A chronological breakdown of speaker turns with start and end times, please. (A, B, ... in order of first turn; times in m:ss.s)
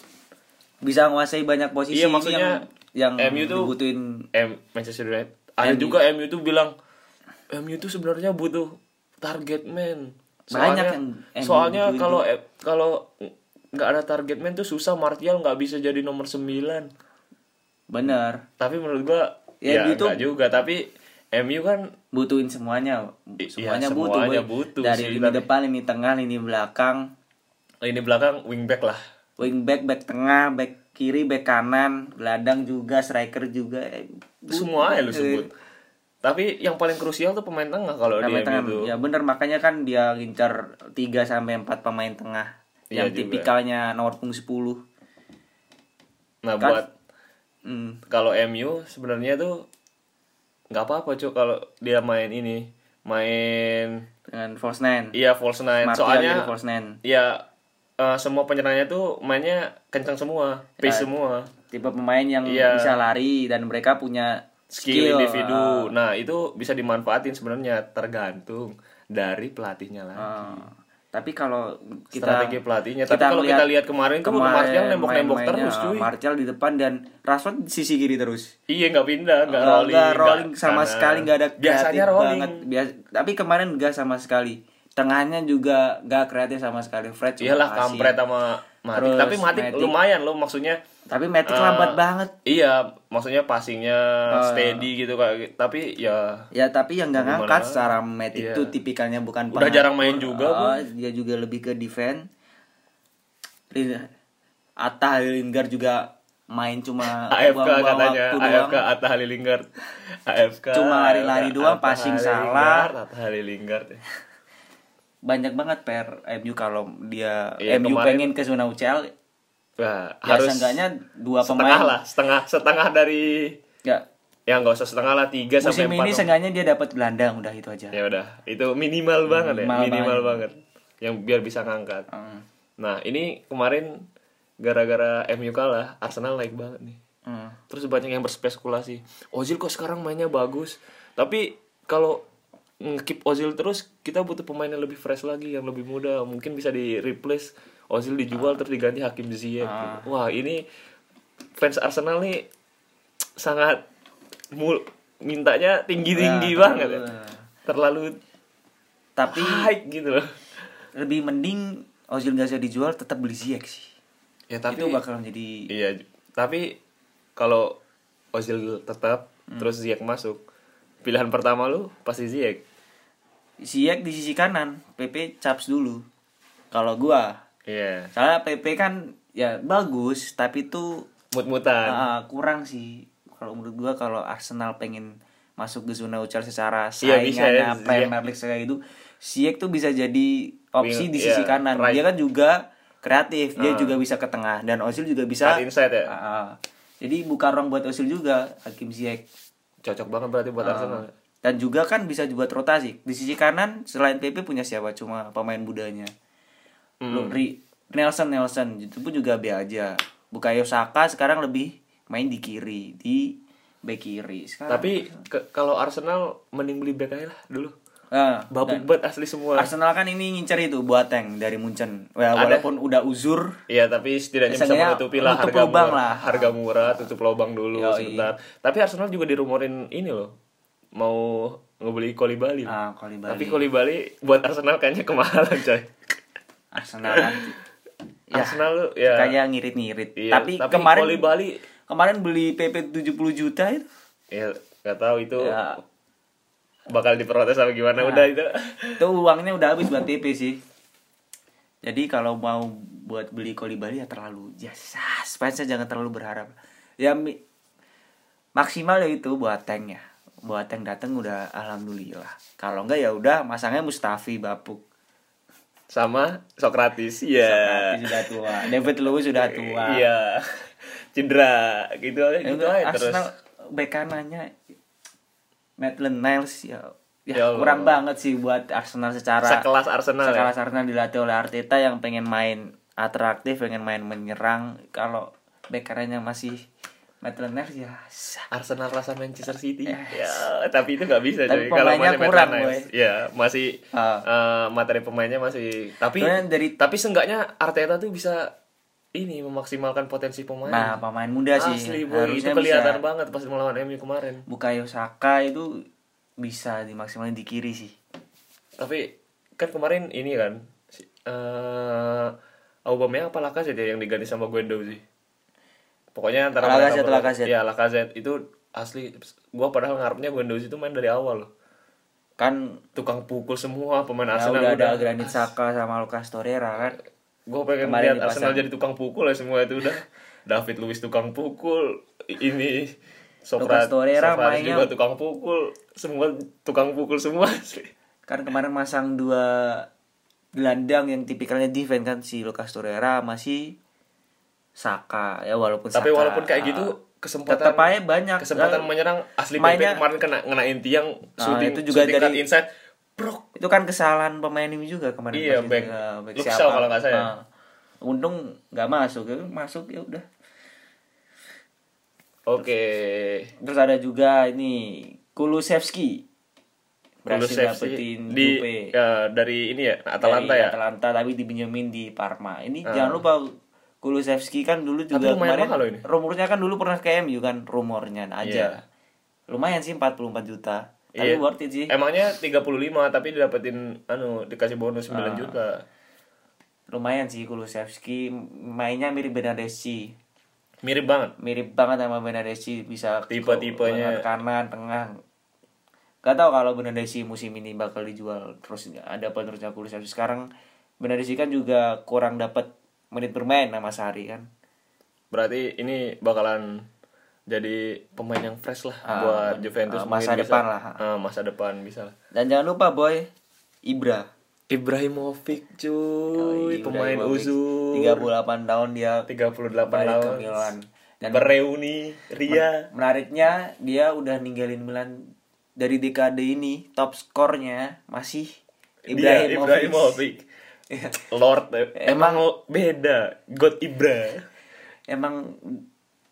0:00.8-0:04.3 A
0:01.9-0:02.6 B
0:03.2-0:03.7 B
0:04.3-0:06.7 B
0:05.6-0:06.0 A
0:07.5-0:16.9 B
0:10.5-0:12.2 A
0:17.9-0:18.4 A
0:18.6-0:21.9 B
0:19.6-0:20.2 A
0:22.1-0:27.1 A
0:23.4-0:25.5 B
0:27.8-0:29.0 B
0:29.4-0:35.5 A
0:34.5-0:35.5 B
0:36.2-0:38.9 B
0:38.2-0:44.8 A
0:42.9-0:43.5 B
0:46.4-0:46.9 B
0:47.7-0:48.0 A
0:48.1-0:49.7 B
0:50.7-0:54.0 B
0:54.3-0:55.2 A
0:55.1-0:56.5 B
0:55.8-0:57.0 A
0:57.0-0:57.4 B
0:58.0-1:01.5 B
1:00.8-1:01.1 A
1:01.7-1:05.9 A
1:02.4-1:02.9 B
1:04.7-1:10.6 B
1:10.2-1:13.7 A
1:12.1-1:16.1 B
1:14.2-1:18.5 A
1:18.7-1:22.6 B
1:19.5-1:28.1 A
1:27.4-1:30.8 B
1:28.9-1:29.9 A
1:31.1-1:32.3 A
1:31.5-1:36.5 B
1:34.3-1:34.9 A
1:36.5-1:42.2 A
1:37.2-1:38.7 B
1:39.5-1:40.8 B
1:43.7-1:44.1 A
1:44.8-1:48.8 A
1:47.0-1:49.7 B
1:50.3-1:54.0 B
1:50.7-1:52.9 A
1:55.3-1:59.1 A
1:57.6-1:58.3 B
1:59.8-2:00.8 B
2:00.2-2:02.0 A
2:01.4-2:03.6 B
2:04.5-2:06.3 B
2:05.6-2:08.0 A
2:07.9-2:12.1 B
2:09.3-2:10.4 A
2:12.1-2:12.4 A
2:12.8-2:14.0 B
2:14.6-2:17.0 B
2:17.3-2:17.6 A
2:17.7-2:22.2 B
2:22.8-2:30.6 B
2:29.6-2:30.1 A
2:31.6-2:32.5 B
2:33.4-2:33.8 B
2:34.5-2:37.0 B
2:36.1-2:37.4 A
2:37.7-2:38.2 B
2:39.2-2:39.7 A
2:39.3-2:40.4 B
2:41.0-2:43.9 A
2:44.5-2:45.0 B
2:44.7-2:45.7 A
2:45.7-2:46.8 B
2:47.4-2:47.8 B
2:48.3-2:50.4 B
2:51.0-2:52.6 B
2:53.6-2:56.0 A
2:56.7-2:57.4 A
2:57.7-2:58.1 B
2:58.2-3:01.0 A
3:01.3-3:02.0 B
3:01.8-3:19.2 A
3:07.0-3:08.1 B
3:10.8-3:12.0 B
3:13.6-3:14.0 B
3:15.4-3:16.1 B
3:19.8-3:21.1 B
3:20.6-3:26.1 A
3:27.0-3:27.4 B
3:27.1-3:35.2 A
3:34.7-3:37.7 B
3:38.1-3:38.8 A
3:38.5-3:39.7 B
3:39.6-3:43.6 A
3:42.4-3:42.7 B
3:43.7-3:50.3 B
3:44.5-3:47.0 A
3:47.7-3:48.3 A
3:51.0-3:52.8 B
3:52.7-3:53.7 A
3:53.3-3:55.9 B
3:56.7-3:57.6 A
3:57.1-3:57.4 B
3:58.3-4:01.3 A
3:58.3-3:59.4 B
4:00.2-4:01.6 B
4:01.9-4:03.9 A
4:04.3-4:05.6 B
4:05.4-4:05.8 A
4:06.9-4:09.0 B
4:08.0-4:08.3 A
4:09.0-4:10.6 A
4:11.8-4:17.4 A
4:18.6-4:24.8 A
4:25.9-4:28.7 B
4:27.4-4:30.0 A
4:29.4-4:33.3 B
4:32.4-4:34.5 A
4:35.8-4:39.7 A
4:37.3-4:38.0 B
4:39.4-4:40.5 B
4:40.2-4:46.6 A
4:47.2-4:48.5 A
4:48.5-4:58.5 B
4:49.9-4:50.5 A
4:51.5-4:52.9 A
4:53.9-4:54.3 A
4:56.2-4:56.8 A
4:59.2-5:01.0 B
5:00.7-5:03.0 A
5:01.6-5:04.4 B
5:04.5-5:05.7 A
5:06.4-5:08.0 A
5:08.8-5:12.3 B
5:12.9-5:15.0 B
5:16.2-5:21.5 B
5:16.6-5:17.5 A
5:22.4-5:22.8 A
5:23.0-5:25.5 B
5:24.3-5:27.0 A
5:27.5-5:37.9 B
5:27.8-5:28.6 A
5:33.6-5:34.9 A
5:38.3-5:39.9 A
5:40.6-5:43.8 A
5:44.8-5:46.9 A
5:46.0-5:53.5 B
5:47.5-5:48.9 A
5:49.6-5:50.0 A
5:51.4-5:52.4 A
5:53.6-5:57.4 A
5:55.3-5:57.3 B
5:58.0-6:00.2 A
6:02.5-6:03.5 B
6:03.6-6:06.2 A
6:07.2-6:08.9 A
6:07.3-6:10.8 B
6:10.2-6:13.5 A
6:12.9-6:13.2 B
6:14.0-6:18.8 A
6:15.1-6:16.0 B
6:18.4-6:18.8 B
6:19.5-6:21.9 A
6:21.2-6:25.8 B
6:25.1-6:25.6 A
6:26.9-6:30.2 A
6:30.8-6:31.3 B
6:31.4-6:35.2 A
6:33.3-6:34.2 B
6:36.2-6:40.5 A
6:41.0-6:44.5 A
6:45.3-6:46.9 B
6:47.5-6:52.1 B
6:49.0-6:51.0 A
6:52.3-6:53.3 A
6:53.9-6:54.3 A
6:54.7-6:58.3 B
6:56.4-6:59.3 A
6:59.3-7:00.7 B
6:59.9-7:01.5 A
7:01.2-7:02.9 B
7:02.5-7:05.2 A
7:05.8-7:08.6 A
7:09.1-7:10.2 A
7:09.1-7:10.4 B
7:10.9-7:11.2 A
7:11.2-7:14.5 B
7:12.0-7:12.4 A
7:15.1-7:15.8 A